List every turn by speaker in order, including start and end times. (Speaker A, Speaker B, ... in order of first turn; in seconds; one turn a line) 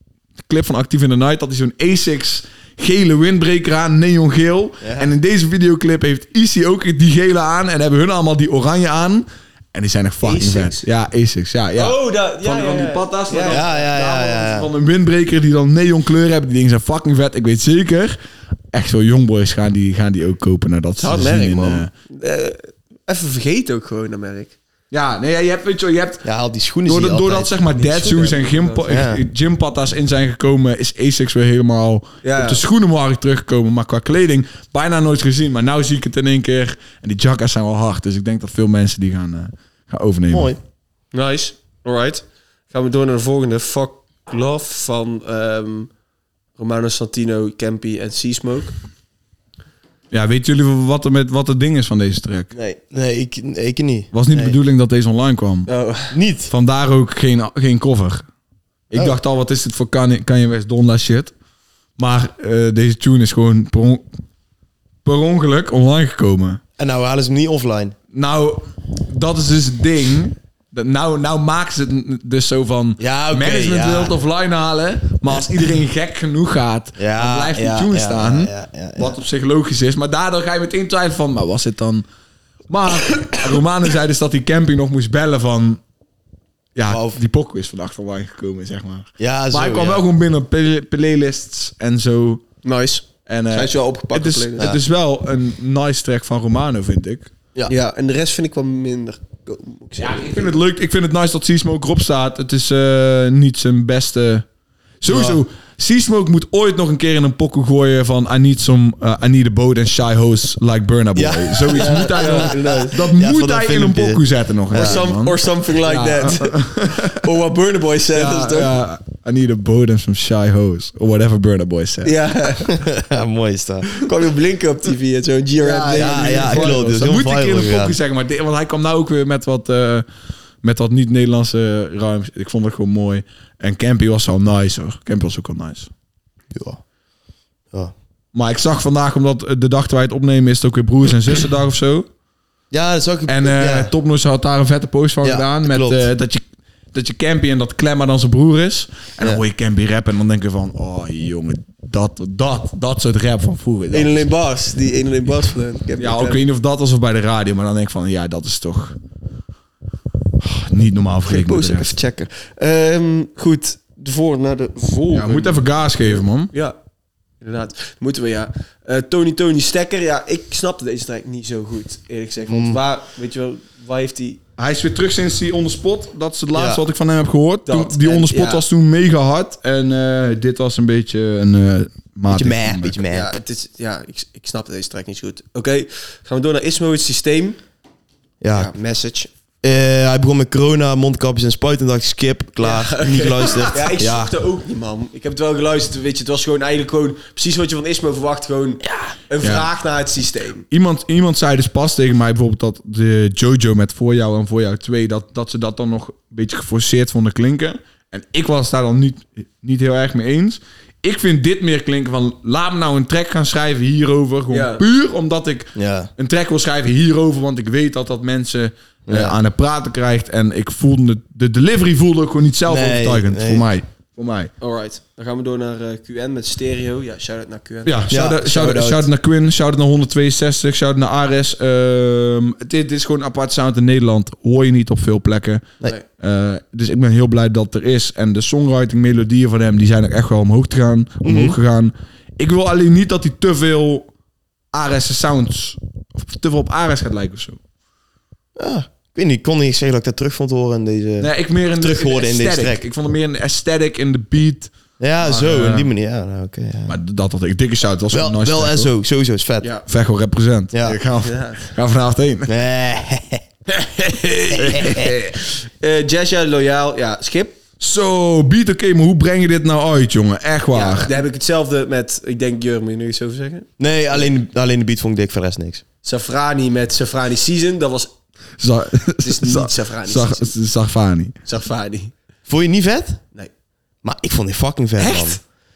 Speaker A: 0.5-18.2
Speaker B: 4.8-5.1
Speaker C: 10.2-10.9
Speaker C: 11.8-13.7
Speaker B: 13.5-14.7
Speaker A: 18.7-21.9
Speaker C: 21.0-24.6
Speaker A: 24.9-26.3
Speaker B: 26.2-27.5
Speaker A: 26.9-40.5
Speaker C: 27.8-29.0
Speaker B: 28.9-29.2
Speaker C: 32.2-32.6
Speaker B: 40.3-40.6
Speaker C: 41.1-45.9
Speaker C: 46.6-48.8
Speaker A: 50.1-52.5
Speaker B: 52.6-54.6
Speaker A: 54.1-55.7
Speaker C: 55.7-56.1
Speaker B: 56.1-56.5
Speaker A: 56.5-58.2
Speaker A: 58.9-61.3
Speaker B: 58.9-59.2
Speaker A: 62.0-64.0
Speaker A: 65.0-66.6
Speaker B: 66.8-68.0
Speaker A: 68.1-82.0
Speaker B: 73.0-74.2
Speaker B: 77.0-79.2
Speaker A: 82.7-85.8
Speaker A: 86.8-92.4
Speaker B: 86.9-87.2
Speaker B: 89.2-90.0
Speaker C: 92.6-94.8
Speaker A: 93.3-97.3
Speaker C: 97.7-100.6
Speaker A: 100.0-104.5
Speaker A: 105.0-117.2
Speaker B: 105.1-105.4
Speaker B: 111.2-115.0
Speaker C: 111.8-113.0
Speaker C: 114.7-118.7
Speaker A: 118.1-122.2
Speaker C: 122.0-122.8
Speaker B: 122.7-123.9
Speaker C: 124.0-126.8
Speaker A: 125.6-130.1
Speaker B: 125.9-128.0
Speaker A: 130.6-135.9
Speaker B: 136.5-136.8
Speaker A: 138.3-142.1
Speaker B: 142.7-143.9
Speaker A: 143.3-154.2
Speaker B: 145.2-146.1
Speaker C: 153.9-156.4
Speaker A: 156.0-158.9
Speaker A: 160.4-161.9
Speaker C: 161.3-166.8
Speaker A: 165.1-166.5
Speaker C: 167.4-174.4
Speaker B: 172.5-172.8
Speaker A: 174.6-183.0
Speaker B: 176.5-176.8
Speaker C: 177.7-178.6
Speaker B: 182.3-183.3
Speaker C: 183.1-187.6
Speaker B: 188.4-188.7
Speaker C: 188.5-189.3
Speaker B: 189.6-194.3
Speaker C: 192.6-200.7
Speaker A: 199.4-199.7
Speaker A: 200.7-224.5
Speaker C: 214.5-214.8
Speaker B: 215.8-216.1
Speaker B: 219.1-219.4
Speaker B: 222.7-223.7
Speaker C: 224.6-227.9
Speaker A: 227.8-244.1
Speaker B: 228.1-229.1
Speaker B: 241.2-241.6
Speaker A: 244.7-247.6
Speaker B: 248.6-252.8
Speaker A: 251.2-255.9
Speaker B: 255.0-257.0
Speaker A: 256.9-258.9
Speaker B: 258.1-259.7
Speaker A: 259.9-262.5
Speaker B: 260.7-261.0
Speaker C: 261.2-261.7
Speaker B: 262.5-263.4
Speaker A: 263.7-265.4
Speaker B: 264.5-265.2
Speaker C: 265.8-267.6
Speaker A: 267.8-271.1
Speaker C: 270.7-273.7
Speaker B: 273.8-275.8
Speaker C: 276.0-278.1
Speaker A: 278.6-281.4
Speaker C: 279.2-280.5
Speaker C: 281.5-282.1
Speaker B: 282.5-283.2
Speaker B: 284.0-285.4
Speaker C: 285.0-285.4